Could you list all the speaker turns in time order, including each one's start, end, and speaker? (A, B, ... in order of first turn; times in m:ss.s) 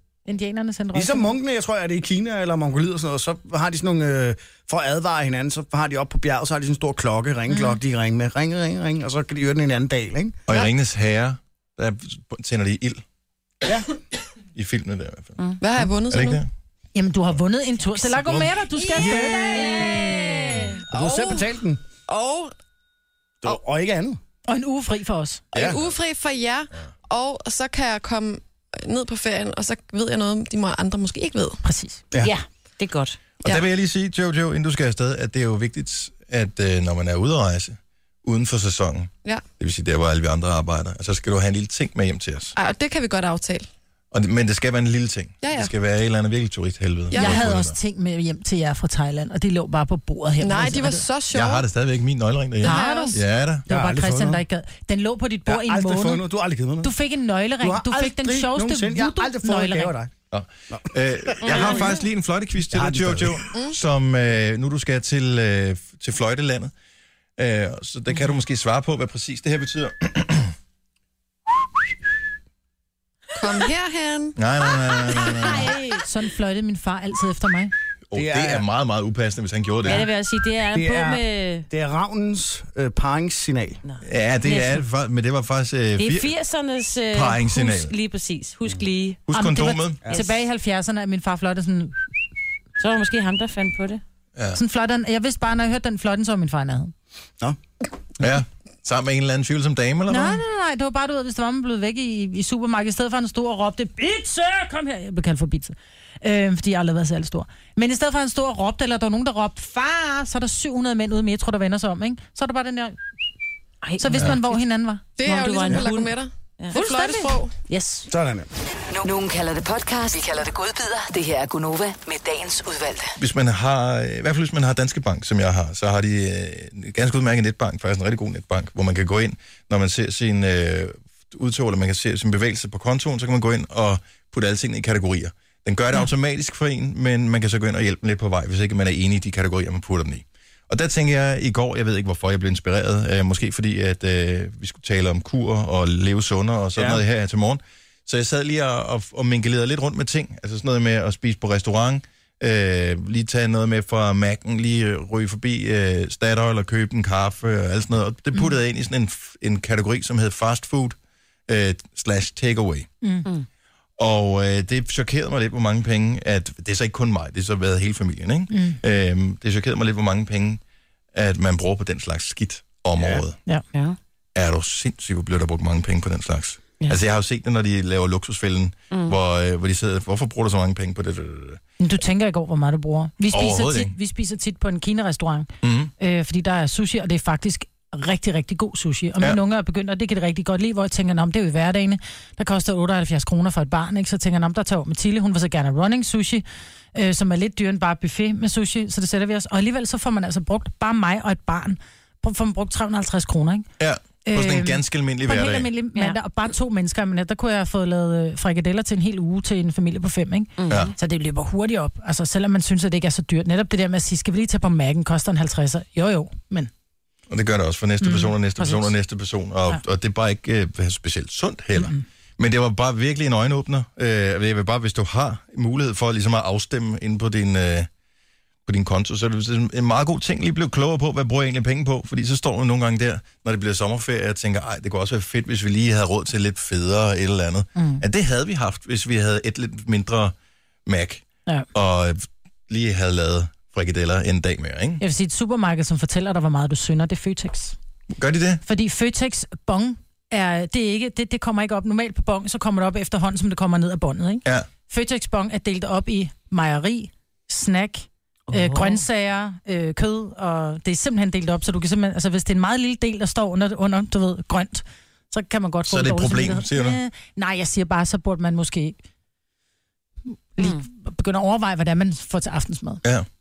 0:00.2-0:01.3 A
0:00.9-0:10.4 B
0:07.5-0:07.8 A
0:10.5-0:13.0 C
0:13.6-0:13.9 B
0:14.5-0:15.6 C
0:15.6-0:16.4 D
0:16.1-0:16.4 C
0:16.9-0:20.3 A
0:18.2-0:19.5 B
0:18.8-0:20.8 E
0:20.9-0:21.8 B
0:20.9-0:21.5 D
0:22.1-0:22.5 D
0:23.4-0:24.2 B
0:24.5-0:25.4 A
0:25.5-0:31.6 D
0:31.6-0:32.0 A
0:32.2-0:33.2 E
0:33.4-0:42.5 C
0:42.6-0:43.6 D
0:44.1-0:47.7 C
0:45.4-0:45.7 D
0:47.1-0:47.5 D
0:47.1-0:51.0 A
0:50.4-0:51.6 D
0:51.3-0:53.6 C
0:52.6-0:53.2 D
0:52.6-0:56.2 A
0:53.7-0:54.4 B
0:55.4-0:56.9 B
0:56.8-0:59.9 A
0:57.6-1:00.1 B
1:00.3-1:06.7 C
1:00.7-1:01.7 B
1:02.7-1:03.5 B
1:07.4-1:10.5 C
1:13.4-1:14.3 D
1:14.4-1:15.8 C
1:15.3-1:16.0 E
1:16.0-1:17.7 A
1:18.1-1:20.1 C
1:18.1-1:18.6 B
1:19.8-1:21.7 E
1:20.7-1:23.8 B
1:23.8-1:24.8 E
1:24.0-1:26.3 C
1:26.0-1:29.2 E
1:27.1-1:27.9 C
1:29.3-1:30.1 C
1:29.3-1:32.0 A
1:32.8-1:34.0 E
1:34.5-1:36.9 A
1:38.2-1:40.4 C
1:40.1-1:53.0 A
1:53.8-1:54.6 E
1:54.0-1:55.1 A
1:55.2-1:57.5 D
1:55.2-1:56.8 E
1:56.7-1:57.3 A
1:57.7-1:58.1 E
1:58.1-1:58.5 B
1:58.9-2:03.2 F
2:03.2-2:41.0 C
2:26.7-2:27.0 B
2:41.5-2:42.9 C
2:43.0-2:43.3 A
2:44.0-2:50.6 C
2:48.5-2:48.8 A
2:51.1-2:53.4 C
2:53.0-2:53.2 B
2:54.3-3:01.6 C
3:01.8-3:23.7 A
3:03.3-3:03.9 C
3:05.6-3:05.9 C
3:23.8-3:25.7 C
3:24.2-3:36.7 A
3:30.6-3:30.9 E
3:30.7-3:30.9 C
3:37.3-3:47.9 C
3:38.0-3:38.9 A
3:41.8-3:42.0 A
3:48.6-4:00.3 C
3:57.8-3:58.0 A
4:00.8-4:05.0 C
4:05.0-4:07.8 A
4:08.2-4:08.6 C
4:08.6-4:29.0 A
4:18.5-4:19.0 E
4:25.9-4:27.0 C
4:30.5-4:33.0 A